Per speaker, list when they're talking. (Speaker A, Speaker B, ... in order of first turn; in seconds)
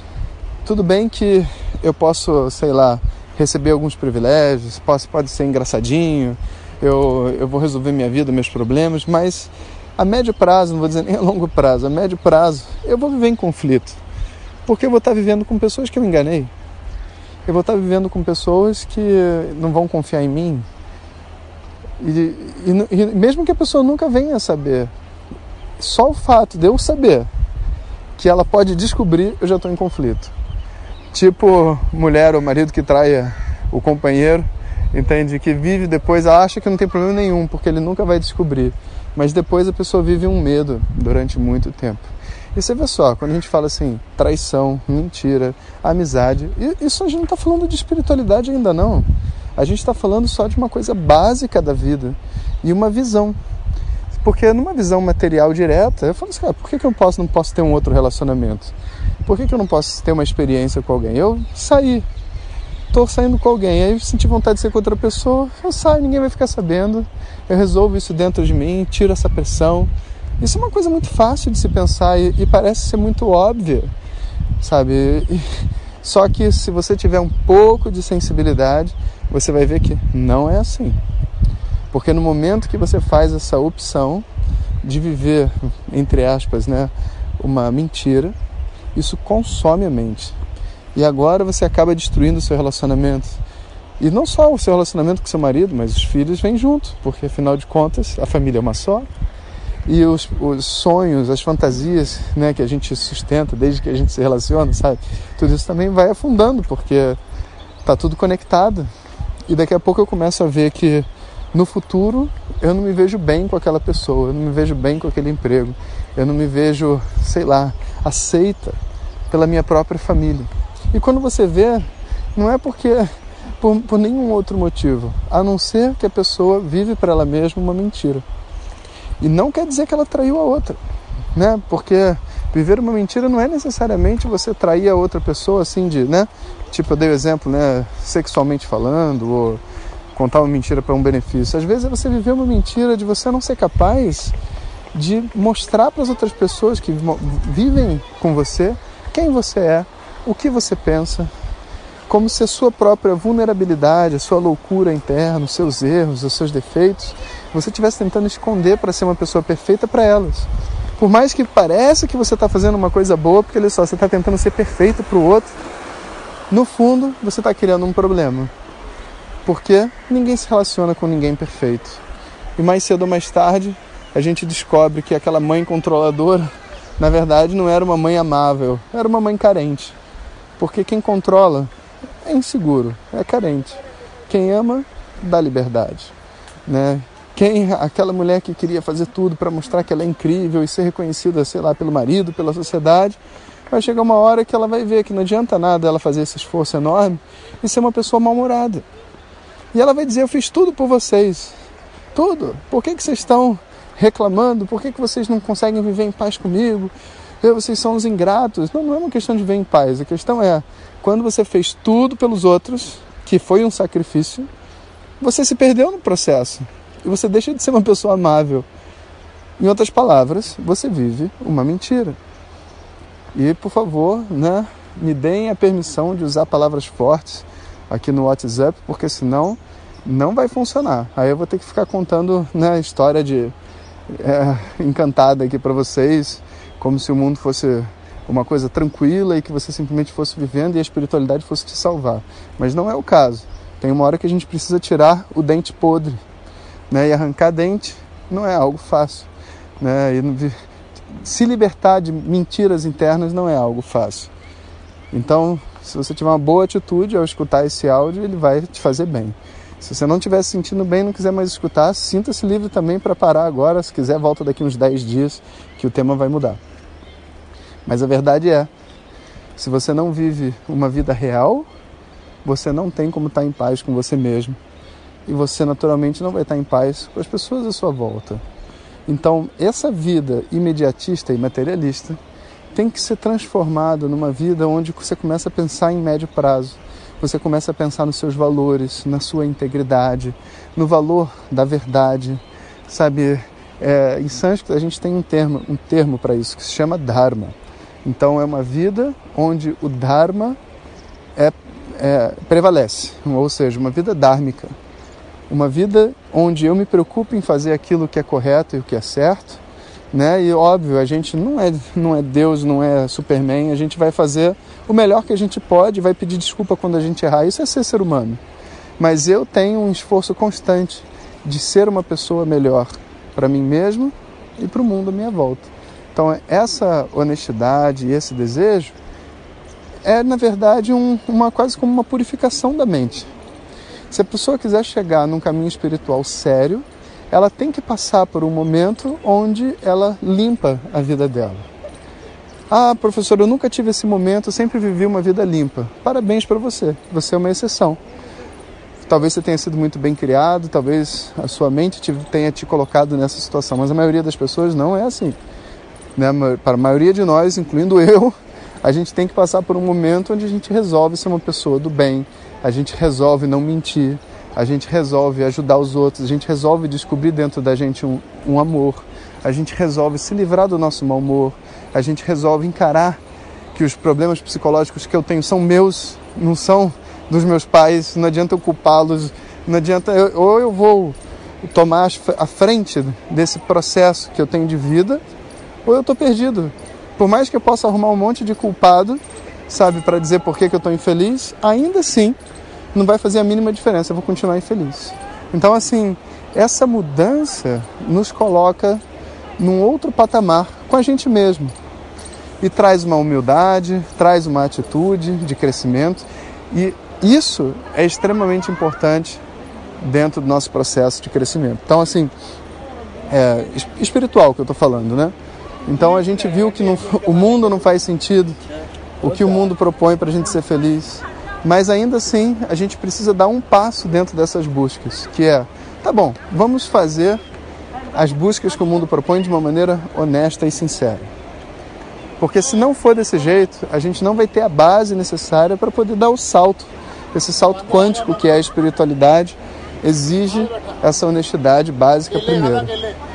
Speaker A: 0.6-14.0, 14.7-16.5, 17.4-20.7, 22.0-24.9, 25.8-27.3, 28.2-30.3, 31.1-53.4, 54.1-58.7, 59.2-62.0, 62.9-73.9, 74.6-81.0, 81.9-84.2, 84.8-88.3, 88.9-90.3, 90.9-93.4, 94.0-99.1, 99.8-107.2, 107.8-108.9, 109.5-118.8, 119.3-128.2, 129.2-130.8, 131.3-139.6, 140.1-144.3, 144.9-151.3, 152.1-165.5, 166.5-168.5, 169.4-172.0, 172.6-179.9, 180.6-181.7, 182.2-186.1, 186.7-193.2, 193.7-198.8, 199.7-201.5, 202.1-214.5, 215.2-218.7, 219.6-222.2, 223.3-233.5, 234.1-246.2, 246.9-249.3, 249.8-250.5, 251.1-254.3, 255.1-266.6, 267.8-268.7, 269.6-271.7, 272.4-274.6, 275.2-278.4, 279.1-282.2, 282.7-300.6, 301.4-304.7, 305.5-309.6, 310.1-318.4, 319.0-328.9, 330.0-333.3, 334.1-341.6, 342.7-348.0, 349.0-355.4, 356.1-373.2, 373.7-385.2, 385.8-392.4, 392.9-399.0, 399.6-401.7, 402.6-409.4, 410.0-412.3, 413.3-415.3, 415.9-418.6, 419.2-427.4, 428.1-431.3, 432.4-443.0